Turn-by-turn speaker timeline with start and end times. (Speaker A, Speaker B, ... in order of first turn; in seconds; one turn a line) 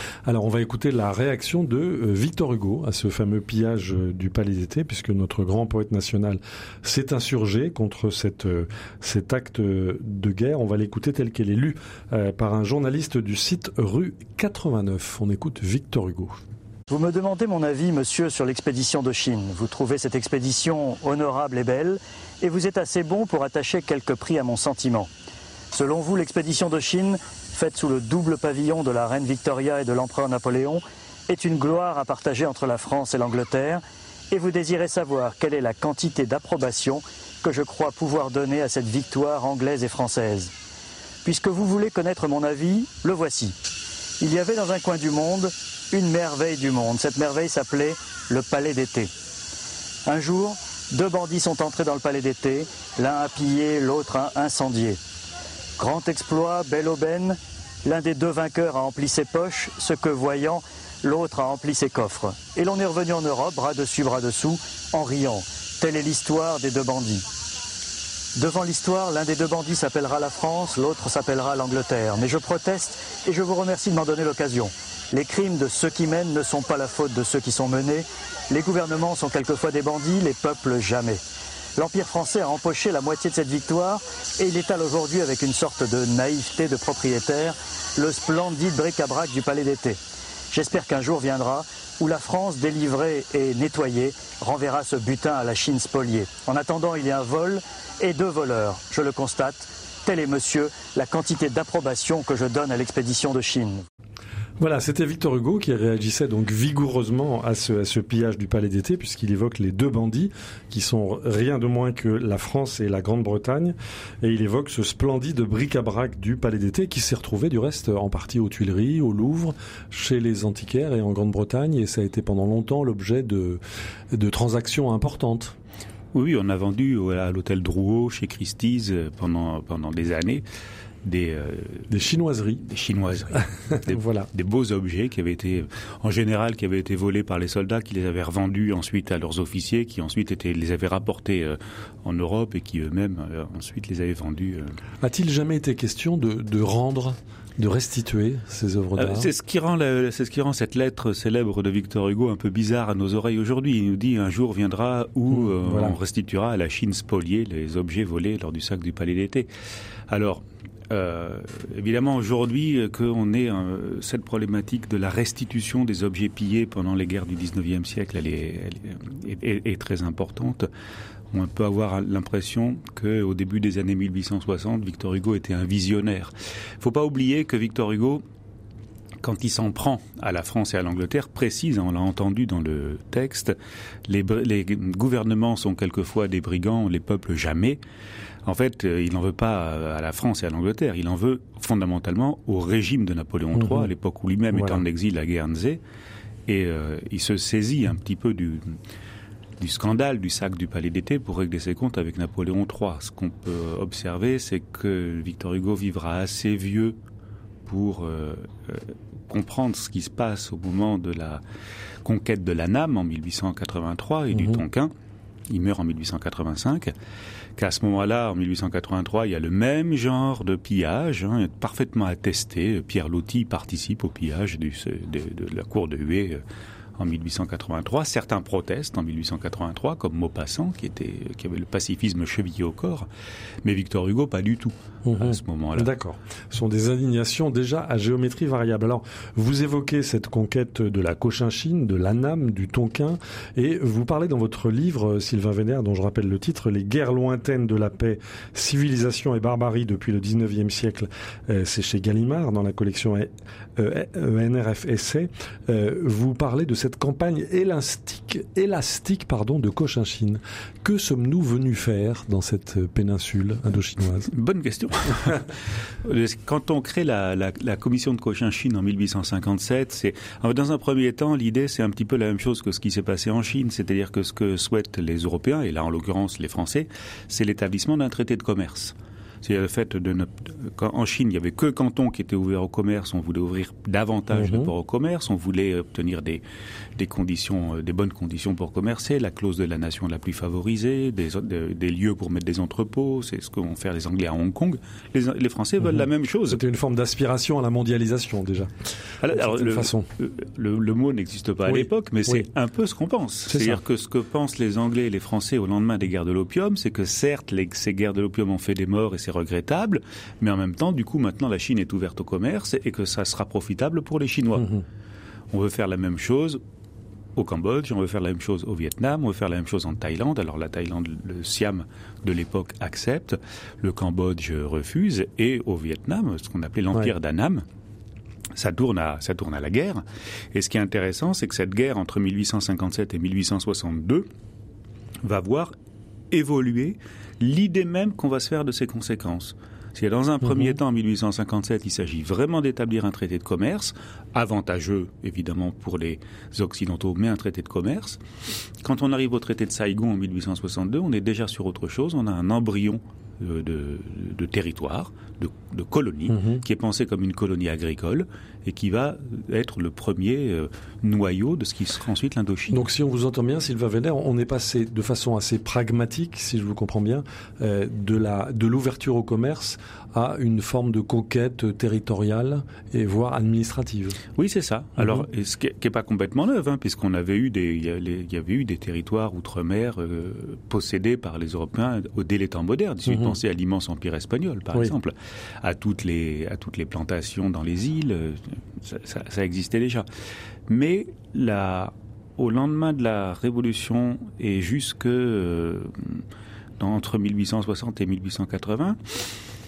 Speaker A: 0.2-16.4
Speaker B: 16.9-25.1
Speaker B: 25.7-40.5
Speaker B: 41.2-43.7
Speaker B: 44.2-49.1
Speaker B: 50.0-55.0
Speaker B: 55.8-67.2
Speaker B: 68.3-81.2
Speaker B: 81.8-90.0
Speaker B: 90.5-103.8
Speaker A: 104.6-123.6
Speaker A: 124.1-125.5
Speaker C: 126.1-130.4
Speaker C: 131.0-132.0
Speaker A: 131.9-132.6
Speaker C: 132.6-144.8
Speaker A: 133.7-134.3
Speaker A: 145.0-149.3
Speaker C: 148.9-159.5
Speaker A: 155.3-156.0
Speaker C: 160.1-170.7
Speaker C: 171.3-178.2
Speaker C: 179.2-183.6
Speaker C: 184.1-187.8
Speaker C: 188.4-195.8
Speaker A: 193.5-193.9
Speaker A: 194.5-194.8
Speaker C: 196.5-198.8
Speaker C: 199.6-207.0
Speaker C: 207.7-211.4
Speaker C: 212.0-214.9
Speaker A: 214.3-214.6
Speaker C: 215.5-216.9
Speaker C: 217.6-226.4
Speaker C: 227.0-233.1
Speaker C: 233.6-235.9
Speaker A: 235.1-264.3
Speaker C: 264.2-286.4
Speaker A: 284.3-284.7
Speaker C: 287.0-296.6
Speaker A: 296.4-298.7
Speaker C: 299.2-314.8
Speaker A: 299.3-300.1
Speaker A: 301.7-302.5
Speaker A: 303.5-303.8
Speaker C: 315.5-316.6
Speaker C: 317.4-327.6
Speaker C: 328.5-334.3
Speaker C: 335.2-335.7
Speaker C: 336.3-348.2
Speaker C: 348.8-362.8
Speaker A: 356.3-356.6
Speaker A: 362.7-374.2
Speaker C: 374.4-390.0
Speaker A: 375.0-375.2
Speaker A: 383.0-383.4
Speaker C: 390.7-396.2
Speaker C: 396.8-399.3